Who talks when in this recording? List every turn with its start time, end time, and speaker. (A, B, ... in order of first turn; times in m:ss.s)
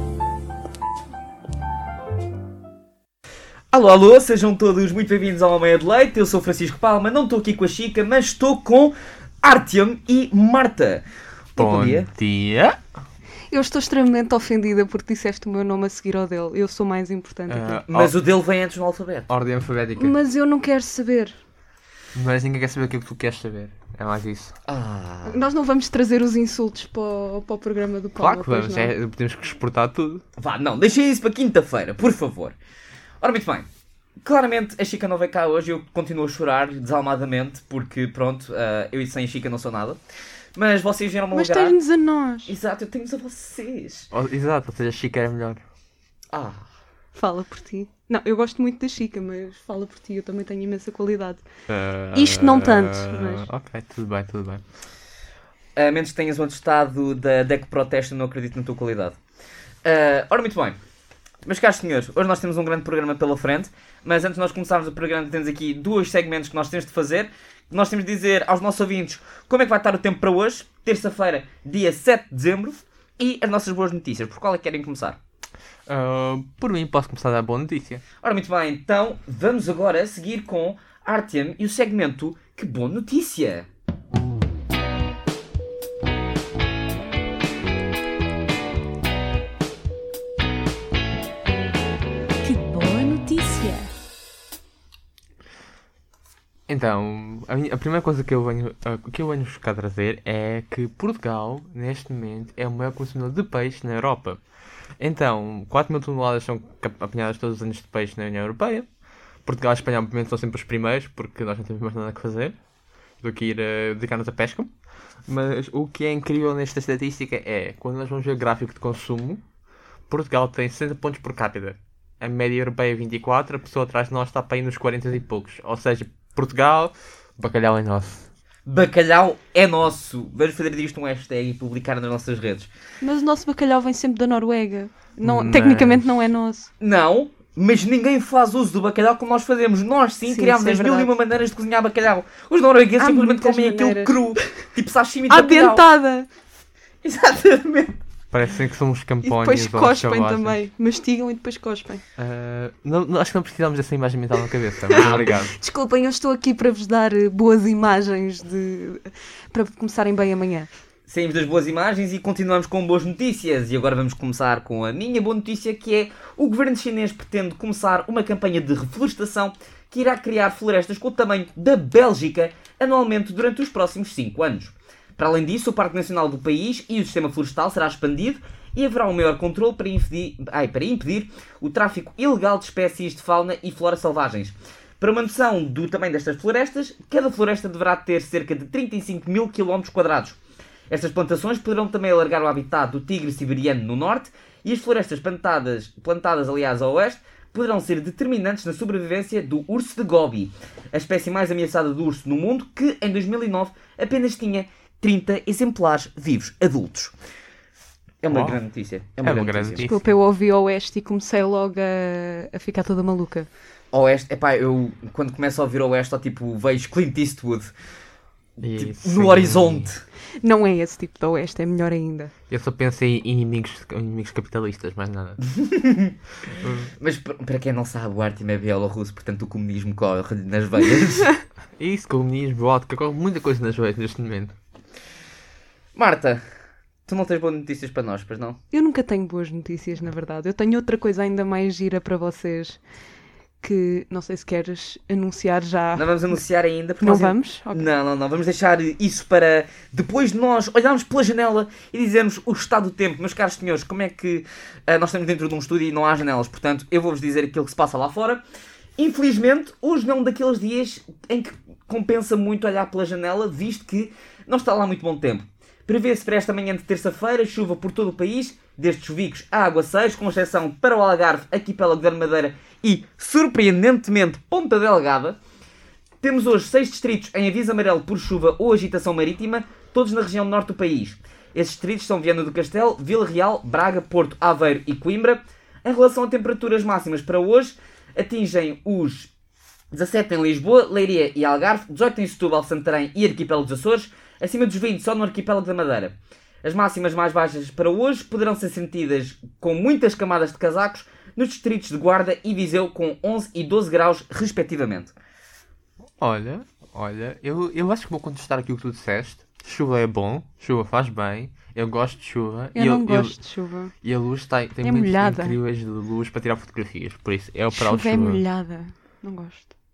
0:03.7-0:12.1 A
0:11.6-0:12.8 B
0:13.5-0:17.8 C
0:17.5-0:18.2 B
0:17.9-0:19.3 A
0:19.3-0:20.2 B
0:20.0-0:21.4 C
0:22.2-0:24.5 B
0:24.7-0:25.4 A
0:25.2-0:28.9 C
0:28.2-0:30.2 B
0:30.4-0:32.6 A
0:33.2-0:33.7 A
0:34.2-0:40.0 A
0:40.6-0:41.8 A
0:41.3-0:42.5 C
0:42.5-0:44.1 A
0:44.1-0:45.6 B
0:46.3-0:46.6 A
0:47.2-0:51.4 C
0:51.7-0:54.6 B
0:52.1-0:53.5 C
0:55.8-0:59.2 A
0:59.8-1:00.8 A
1:01.4-1:15.2 A
1:15.9-1:18.0 B
1:18.2-1:23.7 A
1:32.4-1:33.9 C
1:36.7-1:44.4 B
1:45.0-1:48.9 B
1:49.5-1:52.6 B
1:53.2-1:54.7 B
1:55.3-1:59.4 B
2:00.1-2:08.3 B
2:08.7-2:12.7 A
2:13.0-2:16.7 C
2:15.2-2:16.0 B
2:16.8-2:25.8 A
2:20.3-2:21.1 C
2:23.0-2:24.5 C
2:25.3-2:26.3 C
2:27.0-2:28.0 A
2:28.3-2:30.6 B
2:29.2-2:32.0 C
2:32.2-2:35.6 B
2:34.9-2:40.7 C
2:34.9-2:35.3 A
2:41.1-3:10.4 A
3:10.9-3:27.1 A
3:28.2-3:29.9 A
3:28.3-3:28.6 B
3:29.2-3:30.1 B
3:29.8-3:33.5 C
3:33.9-3:37.7 A
3:38.6-3:39.9 B
3:38.6-3:40.0 A
3:40.4-3:42.3 C
3:42.5-3:45.4 B
3:45.4-3:46.2 A
3:46.6-3:46.9 B
3:47.0-3:51.4 A
3:51.8-3:54.6 B
3:56.0-3:56.4 A
3:57.1-3:58.6 A
3:58.7-4:02.8 C
4:03.6-4:06.4 C
4:06.0-4:18.4 A
4:07.0-4:07.9 C
4:19.0-4:35.4 A
4:36.2-4:49.3 A
4:49.9-5:05.1 A
5:06.2-5:13.4 B
5:12.8-5:13.9 C
5:14.0-5:18.4 B
5:14.8-5:15.6 C
5:17.7-5:19.7 C